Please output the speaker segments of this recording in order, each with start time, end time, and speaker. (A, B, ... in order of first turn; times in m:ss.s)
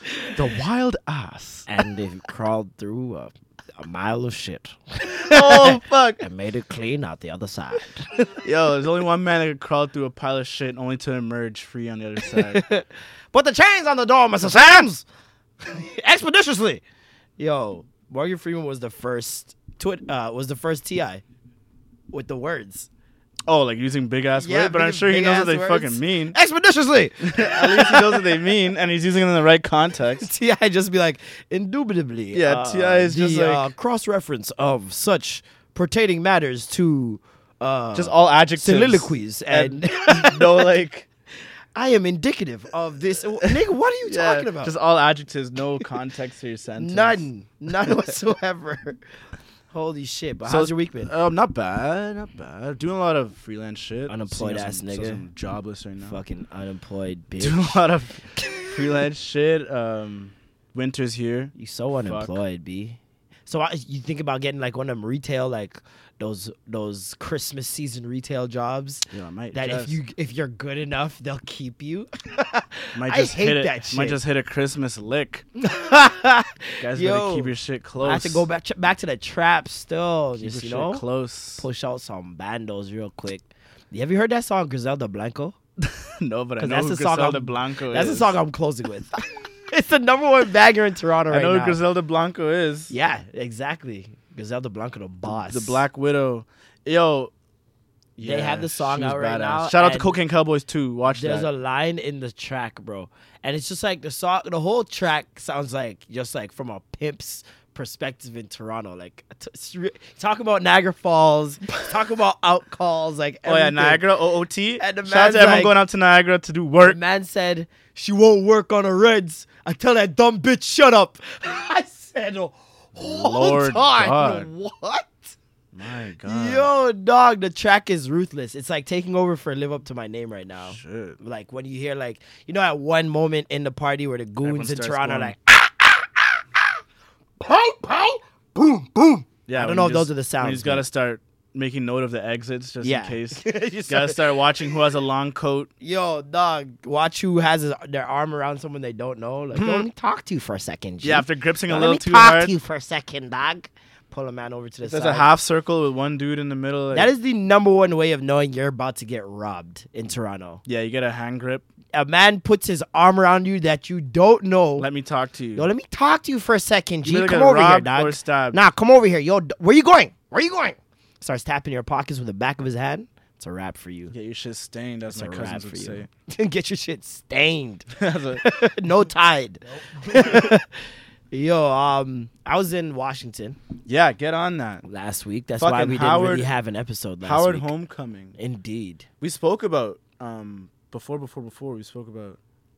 0:00.2-0:01.7 A
0:01.7-0:08.3 B
0:05.1-0:06.2 A
0:08.4-0:12.6 A
0:12.3-0:15.0 B
0:14.5-0:14.9 A
0:15.6-0:16.8 B
0:17.4-0:21.2 B
0:22.1-0:22.9 B
0:23.5-0:26.4 A
0:24.4-0:28.3 B
0:27.2-0:30.3 A
0:30.2-0:40.7 B
0:32.3-0:33.7 A
0:37.9-0:41.1 A
0:41.7-0:44.7 B
0:43.4-0:47.2 A
0:46.8-0:49.0 B
0:49.7-0:51.1 B
0:50.5-0:56.2 A
0:54.1-0:55.2 B
0:56.0-0:57.8 B
0:57.4-1:02.4 A
0:58.4-0:58.7 B
1:01.5-1:14.2 B
1:09.1-1:10.0 A
1:13.0-1:15.4 A
1:15.6-1:17.5 B
1:16.8-1:18.4 A
1:18.0-1:21.0 B
1:20.4-1:21.6 A
1:21.6-1:25.6 B
1:25.8-1:28.4 A
1:26.6-1:31.8 B
1:31.3-1:32.9 A
1:32.9-1:35.8 B
1:35.4-1:37.3 A
1:38.2-1:41.5 A
1:38.2-1:40.1 B
1:41.1-1:54.0 B
1:53.5-1:57.0 A
1:54.8-1:55.7 B
1:56.8-2:05.3 B
2:03.0-2:04.5 A
2:05.7-2:06.7 A
2:06.2-2:16.4 B
2:10.6-2:11.2 A
2:14.4-2:15.3 A
2:17.4-2:20.8 B
2:19.5-2:25.7 A
2:22.8-2:24.2 B
2:25.8-2:35.3 B
2:29.5-2:29.9 A
2:31.0-2:32.5 A
2:34.8-2:37.1 A
2:36.9-2:40.6 B
2:40.7-2:41.7 A
2:41.9-2:44.9 B
2:44.8-2:45.7 A
2:45.5-2:54.1 B
2:47.0-2:48.6 A
2:54.1-2:56.1 A
2:55.1-3:00.7 B
2:58.0-2:58.4 A
2:59.9-3:00.5 A
3:01.3-3:03.6 B
3:03.9-3:04.8 A
3:04.8-3:07.7 B
3:05.6-3:06.5 A
3:07.2-3:08.4 A
3:08.4-3:09.0 B
3:09.2-3:12.4 A